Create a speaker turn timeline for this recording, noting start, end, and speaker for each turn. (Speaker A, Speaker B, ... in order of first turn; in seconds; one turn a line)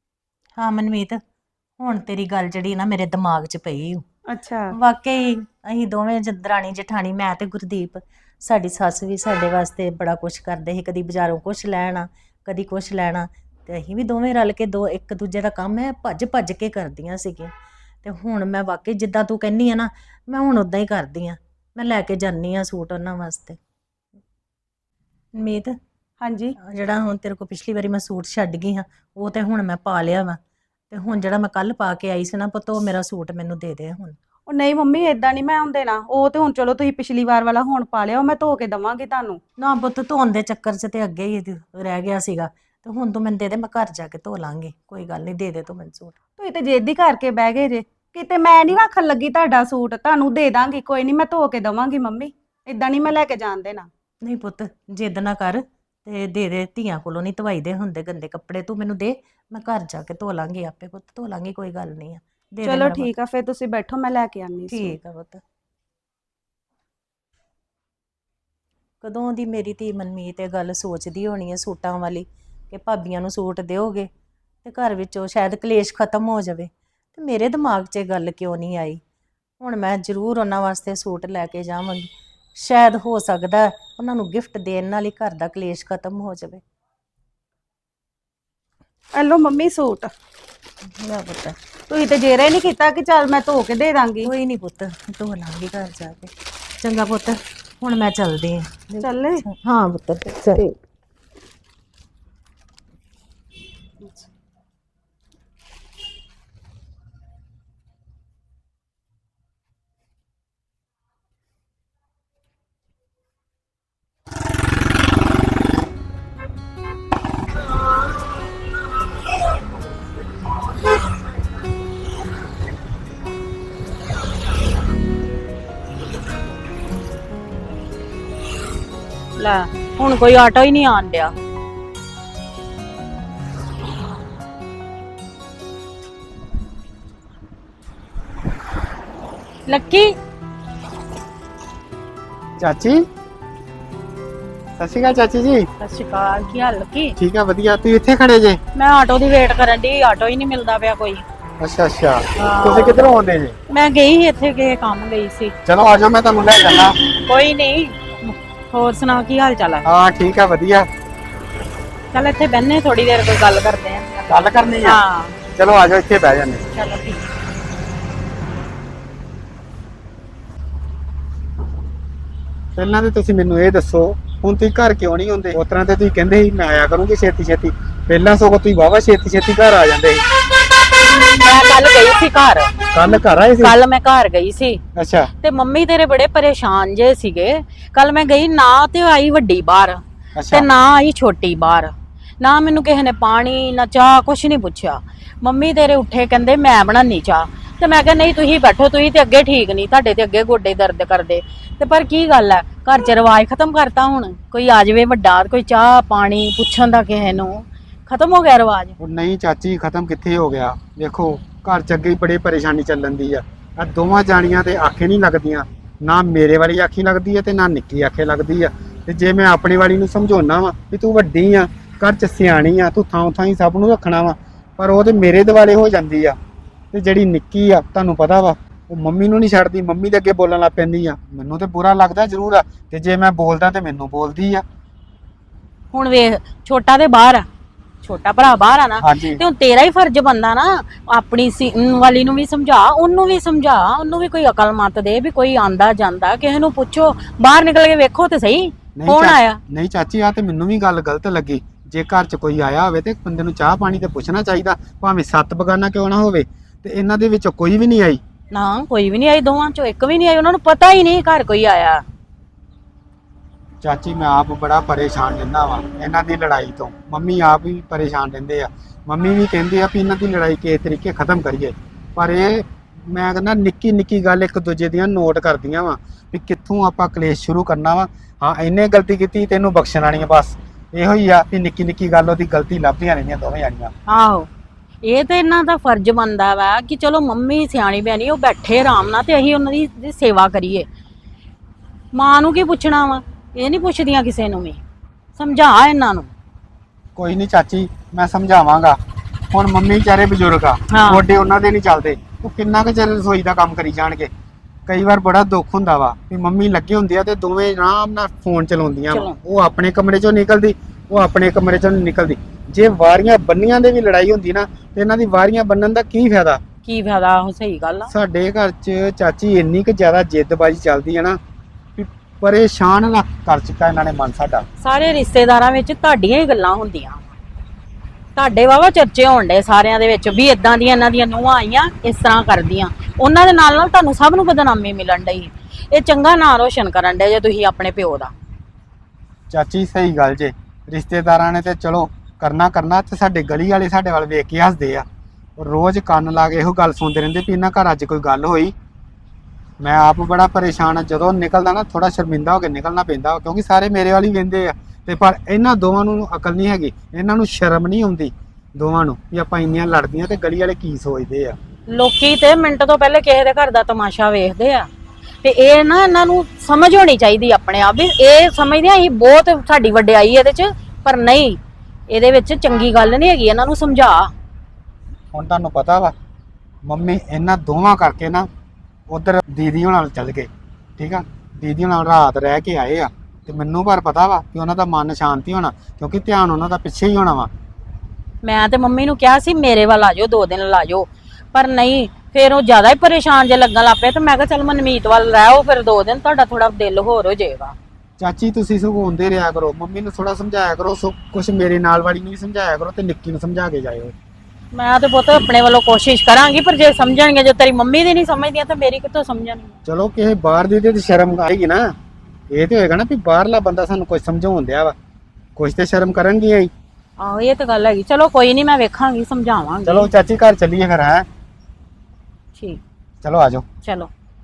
Speaker A: 0.6-1.2
Speaker A: 1.8-4.0
Speaker B: 4.3-4.7
Speaker A: 4.7-23.6
Speaker A: 25.4-25.7
Speaker B: 26.2-26.5
Speaker A: 26.6-30.4
Speaker A: 30.9-34.2
Speaker B: 34.5-39.4
Speaker A: 39.6-46.1
Speaker B: 46.4-53.9
Speaker A: 54.2-63.1
Speaker B: 62.6-64.9
Speaker A: 64.7-65.4
Speaker A: 69.0-74.1
Speaker A: 74.6-79.0
Speaker A: 79.6-86.6
Speaker B: 89.1-90.1
Speaker A: 90.8-91.5
Speaker B: 91.9-94.3
Speaker A: 94.2-100.6
Speaker B: 99.0-99.4
Speaker C: 129.4-131.3
Speaker C: 139.7-140.1
Speaker D: 142.6-143.0
Speaker D: 144.8-145.7
Speaker C: 145.8-147.2
Speaker D: 147.2-148.6
Speaker C: 148.7-151.2
Speaker D: 151.6-153.5
Speaker C: 152.4-153.0
Speaker C: 153.7-155.5
Speaker D: 155.7-157.0
Speaker C: 157.1-159.8
Speaker D: 159.8-160.9
Speaker C: 162.1-164.1
Speaker D: 164.3-165.0
Speaker C: 164.8-165.3
Speaker D: 165.5-166.6
Speaker C: 166.7-167.2
Speaker D: 172.8-180.2
Speaker C: 181.4-182.8
Speaker D: 182.9-183.7
Speaker C: 183.6-184.8
Speaker D: 184.9-185.3
Speaker C: 185.4-208.9
Speaker D: 190.3-190.7
Speaker D: 209.0-226.4
Speaker D: 226.9-234.6
Speaker C: 235.9-237.4
Speaker C: 238.0-249.6
Speaker D: 239.0-239.4
Speaker D: 249.0-258.2
Speaker C: 258.5-262.0
Speaker D: 263.8-283.9
Speaker C: 284.1-284.5
Speaker C: 285.0-290.9
Speaker C: 292.1-294.8
Speaker C: 295.4-296.3
Speaker D: 297.1-299.0
Speaker D: 299.5-304.3
Speaker C: 300.9-301.2
Speaker D: 304.9-316.6
Speaker C: 309.1-309.3
Speaker C: 316.8-318.1
Speaker D: 318.1-321.4
Speaker D: 322.0-324.6
Speaker C: 324.8-327.2
Speaker C: 328.4-338.3
Speaker D: 339.5-345.0
Speaker D: 345.6-348.7
Speaker D: 349.8-361.6
Speaker C: 361.9-364.9
Speaker C: 365.4-371.6
Speaker C: 372.1-374.3
Speaker D: 375.3-376.1
Speaker D: 376.8-378.5
Speaker D: 379.1-387.5
Speaker C: 388.4-397.8
Speaker D: 398.2-404.1
Speaker C: 404.7-409.7
Speaker D: 409.9-411.8
Speaker D: 412.5-414.9
Speaker D: 415.6-416.7
Speaker C: 417.2-420.1
Speaker D: 419.9-421.2
Speaker C: 422.6-422.8
Speaker D: 423.2-423.6
Speaker C: 423.8-424.1